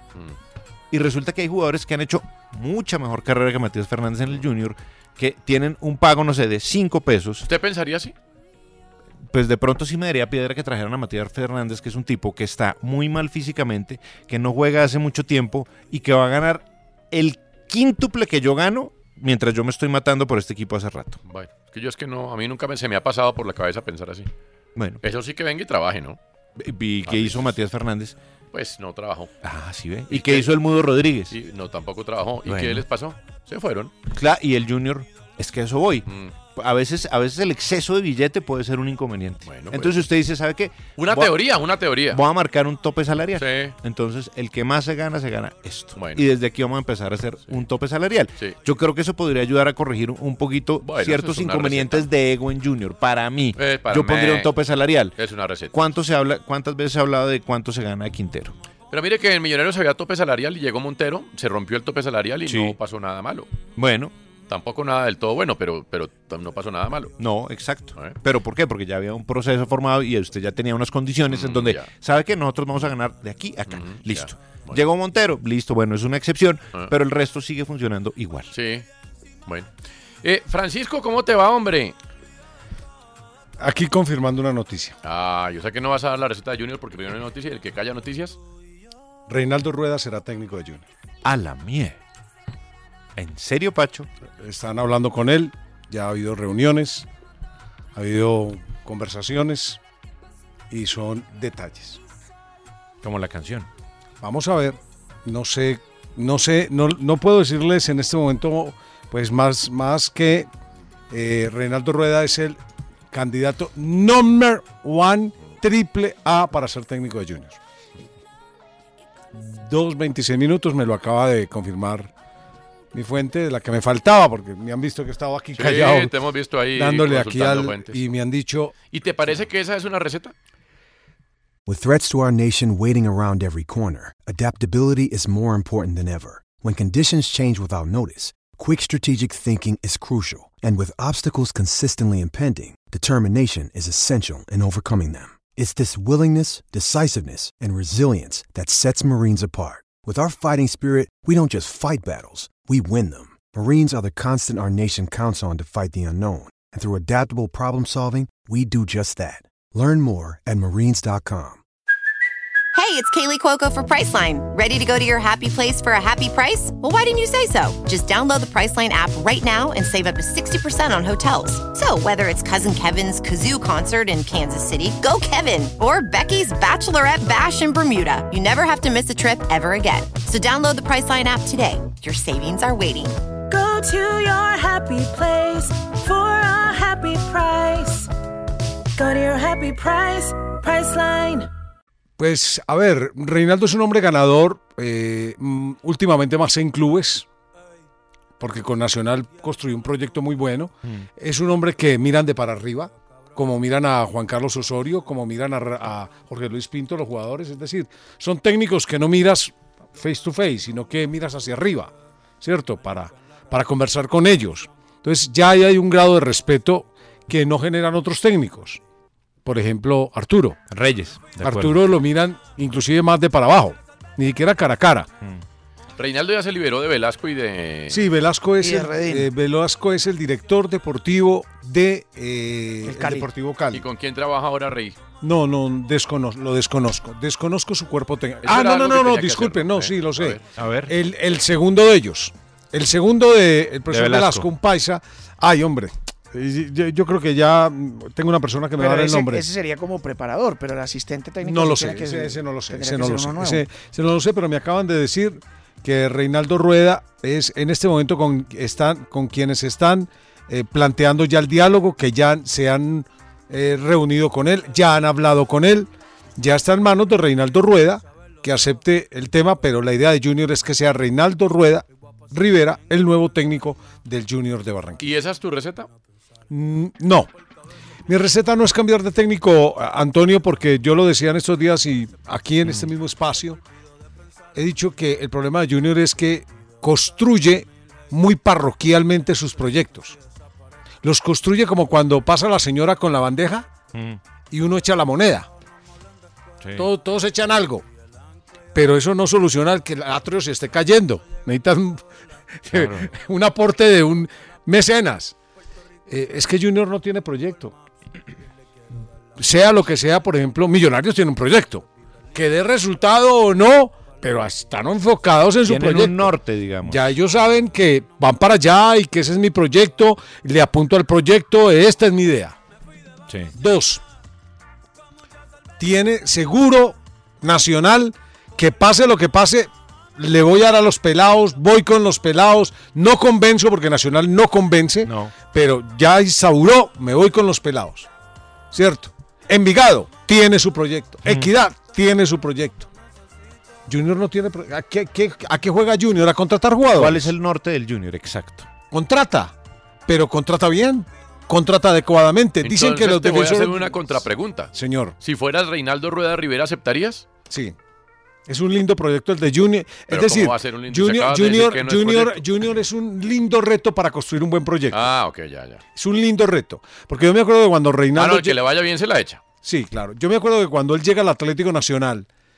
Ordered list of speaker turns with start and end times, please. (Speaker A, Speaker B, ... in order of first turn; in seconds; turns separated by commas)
Speaker A: 0.9-7.5, Speaker B: 7.5-8.1, Speaker A: 9.3-21.2, Speaker B: 21.3-24.3, Speaker A: 24.8-25.0, Speaker B: 25.0-26.2, Speaker A: 26.6-28.2, Speaker B: 27.1-27.5, Speaker B: 28.5-29.3, Speaker A: 29.4-31.4, Speaker B: 30.1-30.5, Speaker B: 31.3-33.9, Speaker A: 32.5-32.9, Speaker A: 34.1-41.4, Speaker B: 36.1-36.3, Speaker B: 39.5-40.1, Speaker B: 41.0-42.2, Speaker A: 42.1-55.1, Speaker B: 43.4-43.8, Speaker B: 46.0-46.2, Speaker B: 50.8-52.1, Speaker B: 53.6-54.5, Speaker B: 55.2-55.7, Speaker A: 55.7-58.5, Speaker B: 58.9-63.5, Speaker A: 62.5-62.8, Speaker A: 63.8-64.1, Speaker B: 64.5-67.1, Speaker A: 67.2-78.5, Speaker B: 71.3-71.9, Speaker B: 73.7-74.8, Speaker B: 78.5-78.9, Speaker B: 80.2-82.0, Speaker C: 83.6-85.0, Speaker B: 85.0-88.4, Speaker C: 89.3-90.9, Speaker A: 91.2-92.0, Speaker A: 93.2-94.1, Speaker C: 94.4-97.1, Speaker C: 98.0-99.8, Speaker C: 100.7-102.0, Speaker A: 103.0-103.7, Speaker C: 104.2-110.5, Speaker C: 111.1-112.6, Speaker C: 113.1-117.6, Speaker C: 119.3-122.1, Speaker C: 122.9-126.1, Speaker B: 125.5-128.0, Speaker C: 126.8-128.8, Speaker B: 128.9-130.3, Speaker D: 131.7-161.6, Speaker E: 162.7-183.2, Speaker F: 183.5-188.1, Speaker F: 189.0-191.5, Speaker C: 192.2-197.3, Speaker C: 198.4-218.8, Speaker C: 219.4-220.6, Speaker A: 220.7-221.9, Speaker C: 221.4-225.1, Speaker B: 226.0-228.1, Speaker C: 227.9-233.8, Speaker G: 228.6-229.3, Speaker G: 232.8-233.3, Speaker B: 233.7-235.0, Speaker C: 235.2-249.5, Speaker B: 238.4-240.4, Speaker A: 240.6-240.9, Speaker A: 243.9-244.5, Speaker G: 248.8-253.6, Speaker C: 251.4-275.1, Speaker B: 275.0-275.9, Speaker C: 276.5-277.3, Speaker C: 278.1-283.6, Speaker C: 284.6-290.2, Speaker C: 291.0-293.7, Speaker A: 293.9-294.2, Speaker C: 294.5-295.5, Speaker A: 296.6-296.9, Speaker C: 296.8-297.9, Speaker C: 298.7-302.0, Speaker C: 302.6-305.4, Speaker A: 302.7-303.1, Speaker C: 306.1-307.8, Speaker C: 309.4-322.6, Speaker A: 315.6-317.1, Speaker C: 323.6-324.0, Speaker C: 325.8-338.1, Speaker A: 335.1-335.3, Speaker C: 338.7-342.9, Speaker A: 341.2-341.5, Speaker C: 343.9-347.3, Speaker A: 346.9-348.7, Speaker C: 348.9-349.6, Speaker C: 350.1-354.0, Speaker B: 352.6-357.3, Speaker C: 354.7-355.2, Speaker C: 357.5-357.8, Speaker C: 358.5-365.1, Speaker B: 360.1-362.6, Speaker B: 364.9-365.8, Speaker C: 365.9-368.6, Speaker B: 368.1-369.4, Speaker C: 369.6-372.3